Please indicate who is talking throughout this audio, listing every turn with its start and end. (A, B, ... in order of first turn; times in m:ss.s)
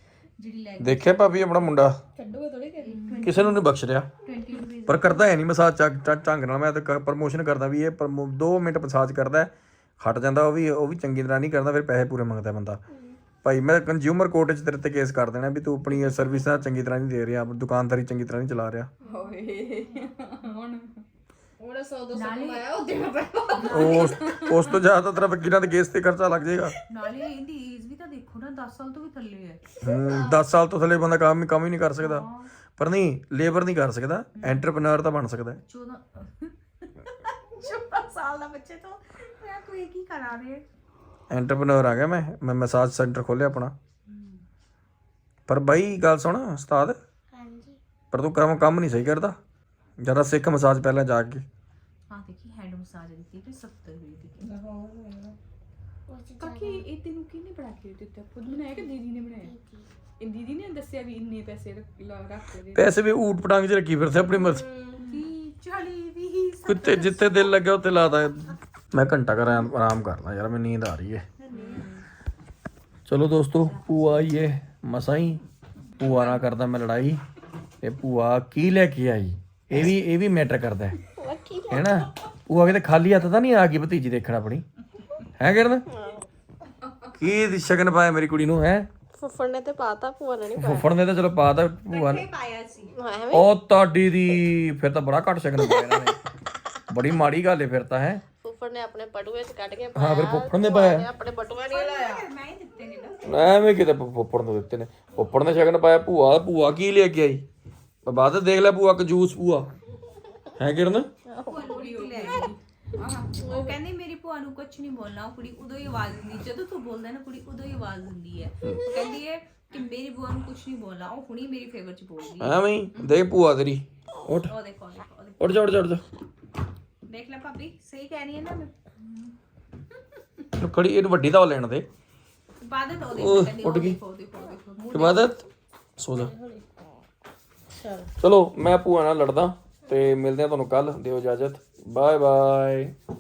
0:00.4-0:01.7 A
0:00.8-0:02.0 B
0:02.2-0:03.3 C
0:02.8-0:03.6 A
0:03.2-0:04.1 B
0:04.2-0:05.3 A
0:04.8-0:12.8 B
0:13.4-0:18.9 B
0:19.0-0:21.0 C
0:21.6-0:24.3 D
0:22.1-0:22.8 A
0:23.5-0:24.1 A
0:23.7-0:26.8 B
0:24.2-0:24.5 C
0:26.9-0:29.6 A
0:29.8-0:35.6 B
0:32.0-0:32.5 A
0:34.3-0:34.7 A
0:35.6-0:40.6 A
0:41.3-0:43.7 B
0:44.1-0:44.4 A
0:45.5-0:47.0 B
0:47.3-0:47.8 E
0:48.1-0:49.4 B
0:50.0-0:51.4 B
0:52.1-0:54.5 A
0:54.4-0:55.4 D
0:56.1-0:56.8 E
0:56.4-0:59.5 C
0:58.4-0:59.9 E
1:00.2-1:02.9 C
1:02.7-1:04.6 B
1:04.3-1:05.2 D
1:05.0-1:07.6 A
1:06.6-1:11.2 B
1:11.4-1:11.9 D
1:11.5-1:12.0 A
1:13.1-1:15.4 B
1:13.6-1:14.2 A
1:16.0-1:17.2 B
1:16.0-1:16.4 A
1:17.8-1:21.0 B
1:21.2-1:22.0 D
1:21.7-1:24.6 B
1:25.4-1:25.8 B
1:25.9-1:26.2 D
1:27.2-1:28.9 B
1:29.2-1:30.9 D
1:30.6-1:32.2 B
1:31.9-1:32.9 A
1:32.9-1:33.5 D
1:33.3-1:36.2 B
1:35.6-1:36.0 D
1:36.9-1:38.2 B
1:38.4-1:42.3 D
1:39.9-1:41.1 B
1:41.5-1:43.4 A
1:43.2-1:47.4 B
1:48.0-1:49.7 B
1:50.6-1:51.1 B
1:51.3-1:52.5 D
1:51.4-2:03.1 A
1:51.7-1:53.4 C
1:53.4-1:53.8 D
1:58.6-1:58.9 B
2:02.4-2:04.5 B
2:04.4-2:05.8 A
2:05.4-2:06.0 B
2:07.1-2:09.3 A
2:10.6-2:11.8 B
2:12.6-2:15.3 A
2:13.1-2:14.0 B
2:14.9-2:15.5 B
2:16.0-2:16.3 B
2:16.1-2:16.6 D
2:17.7-2:18.1 D
2:18.2-2:22.9 B